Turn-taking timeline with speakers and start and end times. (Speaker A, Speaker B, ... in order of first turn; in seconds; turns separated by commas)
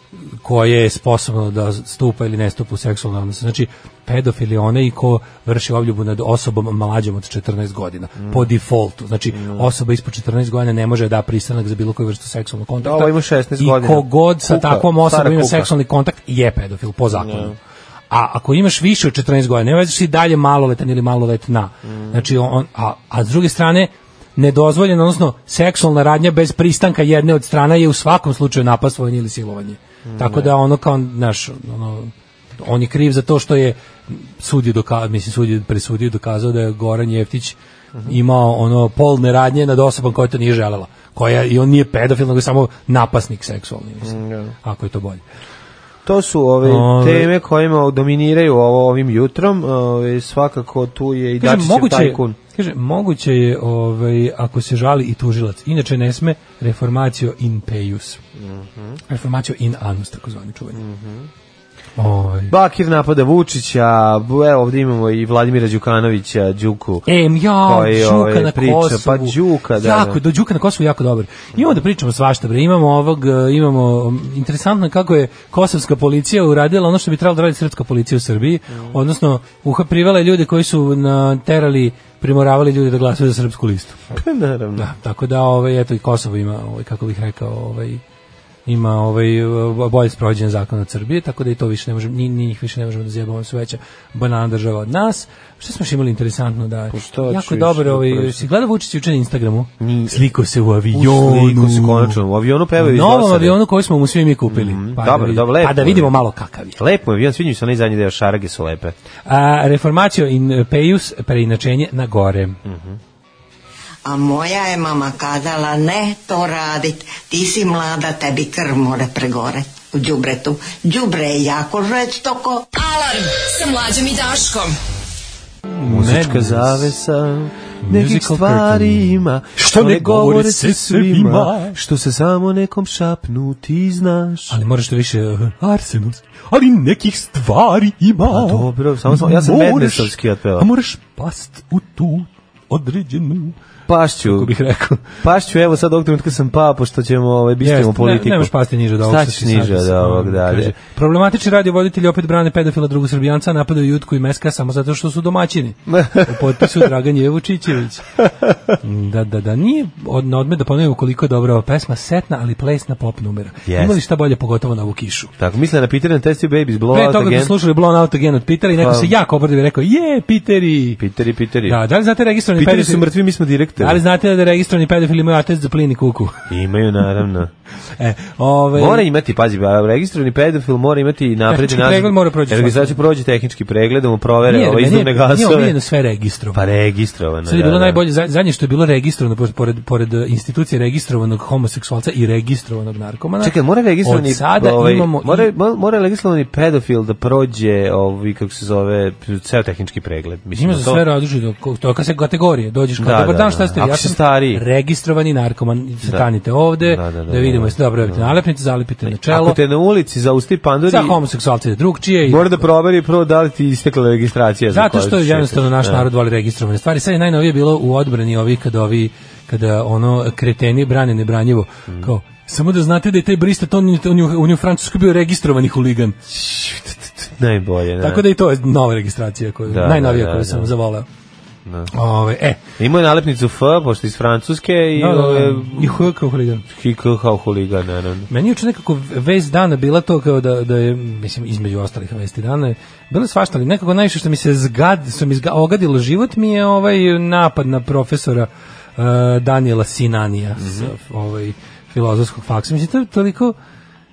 Speaker A: 0.4-17.6, Speaker B: 8.2-8.5, Speaker B: 9.3-9.7, Speaker B: 12.8-15.7, Speaker B: 17.1-17.6, Speaker A: 18.1-45.2, Speaker B: 21.8-22.2, Speaker B: 30.1-30.5, Speaker B: 44.0-44.5, Speaker B: 46.0-52.4, Speaker A: 46.6-47.3, Speaker A: 51.4-58.2, Speaker B: 58.4-59.0, Speaker A: 59.1-60.8, Speaker B: 60.7-61.3, Speaker A: 62.0-62.5, Speaker B: 62.5-70.2, Speaker A: 67.0-84.2, Speaker B: 78.7-79.0, Speaker B: 84.1-84.9, Speaker A: 84.8-88.0, Speaker A: 88.7-102.2, Speaker B: 96.9-98.5, Speaker B: 99.8-100.3, Speaker B: 100.9-103.6, Speaker A: 102.8-106.8, Speaker B: 104.5-106.2, Speaker B: 106.8-108.9, Speaker A: 109.3-112.6, Speaker B: 112.6-113.0, Speaker C: 114.0-122.7, Speaker D: 122.7-124.8, Speaker A: 125.7-126.9, Speaker B: 125.8-134.6, Speaker A: 127.8-131.8, Speaker A: 134.5-143.6, Speaker B: 138.3-140.7, Speaker B: 143.9-144.5, Speaker A: 144.2-145.2, Speaker B: 145.2-150.7, Speaker A: 147.6-158.1, Speaker B: 155.9-156.8, Speaker A: 158.8-165.3, Speaker B: 163.7-164.0, Speaker B: 165.4-167.5, Speaker A: 166.9-171.0, Speaker B: 168.8-169.1, Speaker B: 171.0-171.8, Speaker A: 171.7-173.1, Speaker B: 172.6-174.0, Speaker A: 173.8-176.4, Speaker B: 176.5-177.5, Speaker A: 178.0-179.1, Speaker B: 178.7-185.8, Speaker A: 181.5-183.0, Speaker A: 184.4-186.6, Speaker B: 186.5-188.0, Speaker A: 187.4-195.5, Speaker B: 193.4-201.0, Speaker A: 200.5-209.6, Speaker B: 203.0-204.6, Speaker B: 206.8-208.3, Speaker B: 209.0-211.2, Speaker A: 210.9-212.6, Speaker B: 212.2-216.1, Speaker A: 214.7-226.2, Speaker B: 226.3-228.2, Speaker A: 228.0-231.1, Speaker B: 229.7-230.7, Speaker A: 231.9-232.6, Speaker B: 232.8-236.1, Speaker A: 234.9-236.6, Speaker B: 236.7-238.3, Speaker A: 238.3-253.5, Speaker B: 250.6-250.9